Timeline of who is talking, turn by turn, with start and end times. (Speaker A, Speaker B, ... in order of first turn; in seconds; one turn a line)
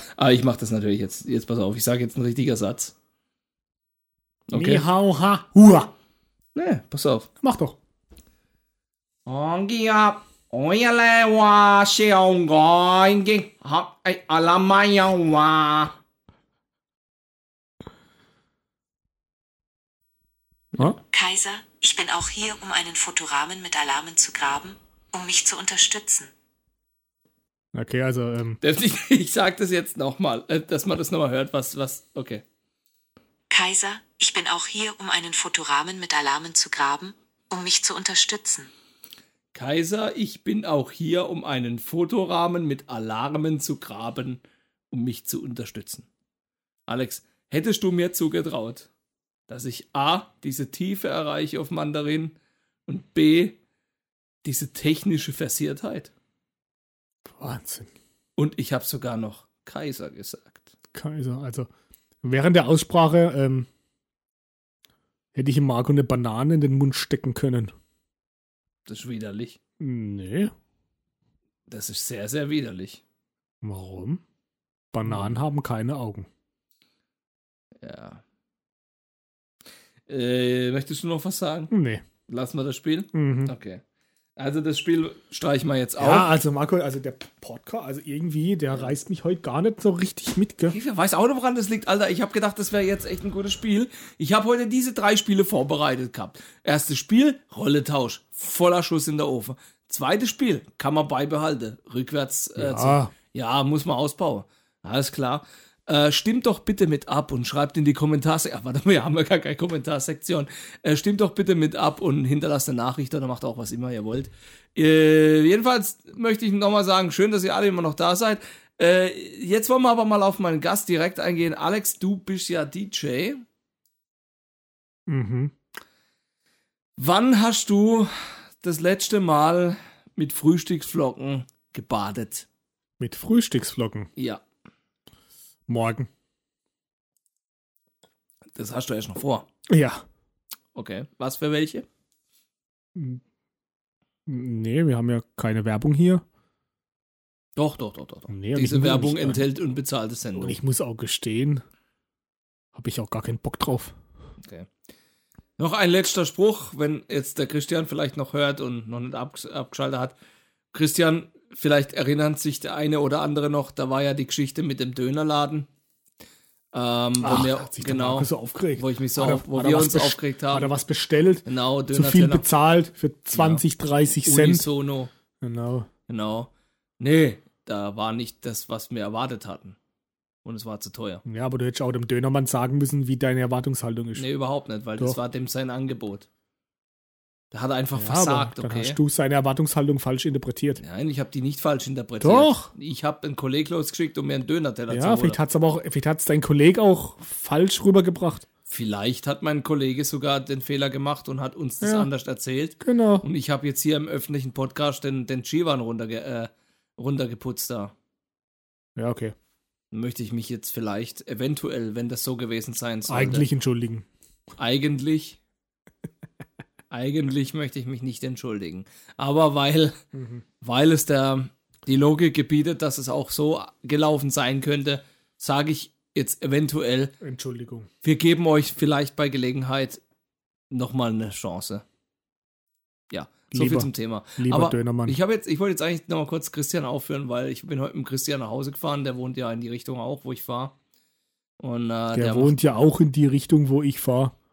Speaker A: 0.2-2.9
Speaker A: 4.5-4.9
Speaker B: 4.5-5.9
Speaker A: 6.5-7.3
Speaker B: 7.4-7.8
Speaker A: 9.3-15.9
Speaker C: 21.1-26.3
Speaker B: 27.7-28.6
Speaker A: 28.6-32.4
Speaker C: 33.5-38.7
Speaker A: 39.5-46.1
Speaker A: 46.9-48.9
Speaker A: 49.5-52.4
Speaker A: 52.9-53.6
Speaker A: 54.4-56.1
Speaker B: 57.3-57.9
Speaker A: 58.4-60.7
Speaker B: 60.9-61.7
Speaker B: 62.2-63.7
Speaker B: 65.3-67.7
Speaker A: 68.9-69.6
Speaker B: 69.8-70.5
Speaker A: 71.7-73.0
Speaker B: 73.6-74.2
Speaker B: 74.9-76.3
Speaker A: 75.0-75.4
Speaker A: 77.8-78.2
Speaker A: 80.1-81.7
Speaker B: 81.7-82.0
Speaker A: 82.3-83.8
Speaker B: 83.1-83.5
Speaker A: 84.4-86.3
Speaker B: 86.0-90.8
Speaker A: 90.7-123.4
Speaker B: 102.6-103.1
Speaker B: 125.1-125.5
Speaker A: 127.0-132.5
Speaker B: 133.0-134.1
Speaker A: 134.2-134.4
Speaker B: 135.7-136.1
Speaker A: 138.6-139.5
Speaker B: 139.7-140.0
Speaker A: 140.8-141.9
Speaker B: 142.9-143.2
Speaker B: 144.3-146.2
Speaker A: 147.6-150.6
Speaker B: 148.3-149.4
Speaker B: 150.4-151.6
Speaker B: 152.8-153.9
Speaker A: 154.4-154.7
Speaker A: 155.6-160.2
Speaker A: 160.7-165.7
Speaker A: 166.7-170.7
Speaker B: 167.2-174.7
Speaker A: 171.5-172.5
Speaker A: 173.3-173.6
Speaker A: 174.2-175.1
Speaker B: 175.4-175.9
Speaker A: 176.1-179.8
Speaker A: 180.4-181.2
Speaker B: 181.2-184.3
Speaker A: 184.2-186.3
Speaker A: 187.5-189.0
Speaker B: 187.9-190.8
Speaker A: 190.8-195.4
Speaker B: 192.2-192.7
Speaker B: 194.9-198.5
Speaker A: 198.7-207.9
Speaker B: 201.8-202.1
Speaker B: 202.8-203.3
Speaker B: 209.0-209.3
Speaker A: 209.9-213.5
Speaker B: 213.1-214.1
Speaker A: 214.6-215.4
Speaker A: 216.9-220.0
Speaker B: 220.1-220.4
Speaker A: 220.6-227.1
Speaker B: 227.2-227.9
Speaker A: 228.0-230.0
Speaker A: 230.7-231.8
Speaker A: 233.1-240.7
Speaker B: 233.5-235.2
Speaker A: 241.6-242.7
Speaker B: 242.1-244.4